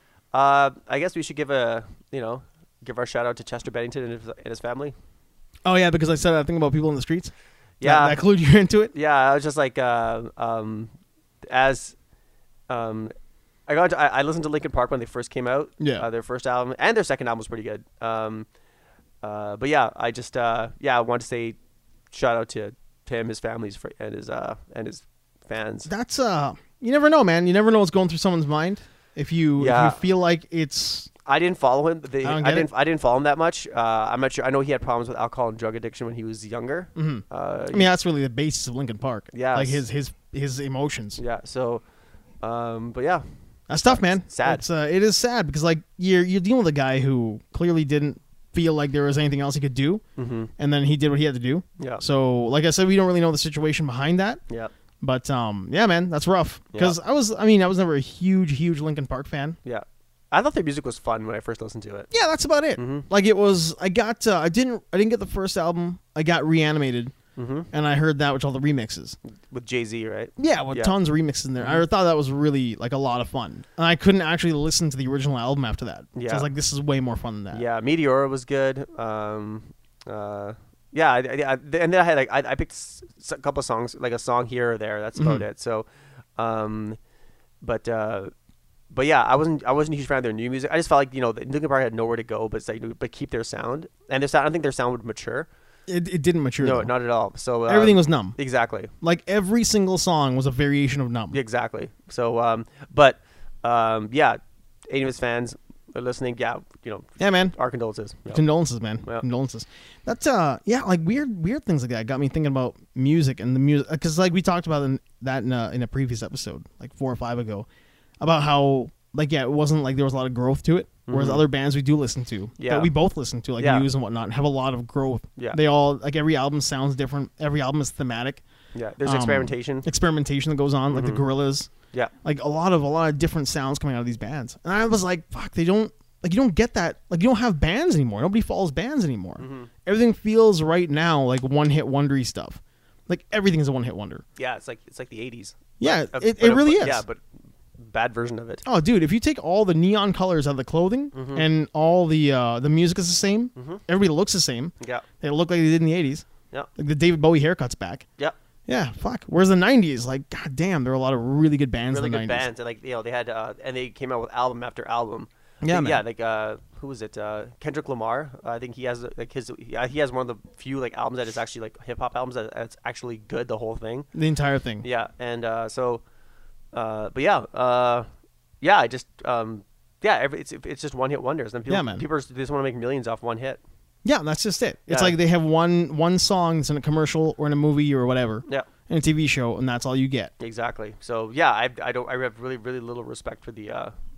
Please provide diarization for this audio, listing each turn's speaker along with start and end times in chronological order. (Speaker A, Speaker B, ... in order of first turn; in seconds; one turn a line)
Speaker A: 0.3-4.9
Speaker B: 5.6-8.9
Speaker A: 7.8-8.2
Speaker A: 8.9-10.9
Speaker A: 11.4-11.9
Speaker A: 12.7-13.1
Speaker A: 13.7-18.5
Speaker B: 15.8-16.1
Speaker A: 19.2-21.6
Speaker A: 22.1-25.9
Speaker B: 25.9-31.1
Speaker A: 29.6-30.0
Speaker A: 31.2-37.9
Speaker B: 32.2-32.7
Speaker B: 37.0-41.2
Speaker A: 39.3-39.8
Speaker A: 41.2-41.8
Speaker A: 42.4-43.2
Speaker B: 43.7-50.0
Speaker A: 43.8-44.6
Speaker A: 50.1-50.5
Speaker B: 50.6-54.4
Speaker B: 55.0-59.6
Speaker A: 59.6-62.1
Speaker B: 62.1-67.1
Speaker A: 62.8-63.1
Speaker A: 67.3-67.7
Speaker B: 67.7-69.2
Speaker A: 69.3-70.9
Speaker B: 70.4-77.6
Speaker A: 76.1-76.5
Speaker A: 77.5-85.8
Speaker B: 85.2-85.4
Speaker A: 86.4-87.0
Speaker A: 87.6-88.3
Speaker A: 88.9-95.5
Speaker B: 95.9-96.9
Speaker A: 96.6-98.9
Speaker B: 97.7-98.4
Speaker B: 99.0-101.4
Speaker A: 101.3-104.4
Speaker A: 104.9-108.4
Speaker B: 107.2-107.5
Speaker B: 108.3-117.7
Speaker B: 118.2-128.4
Speaker A: 121.1-121.4
Speaker A: 122.6-122.9
Speaker A: 123.6-123.9
Speaker A: 128.7-129.8
Speaker B: 129.0-131.7
Speaker A: 130.9-131.2
Speaker B: 132.2-144.2
Speaker A: 139.4-139.7
Speaker A: 144.4-147.2
Speaker B: 145.8-147.0
Speaker A: 147.8-148.6
Speaker B: 148.6-158.0
Speaker A: 151.1-151.5
Speaker A: 153.5-153.8
Speaker B: 158.7-162.5
Speaker A: 161.9-174.1
Speaker B: 165.6-166.0
Speaker B: 174.1-174.8
Speaker A: 174.8-176.0
Speaker A: 176.7-178.1
Speaker A: 178.6-183.6
Speaker B: 181.7-182.0
Speaker B: 184.0-190.3
Speaker A: 184.9-185.1
Speaker A: 190.4-193.9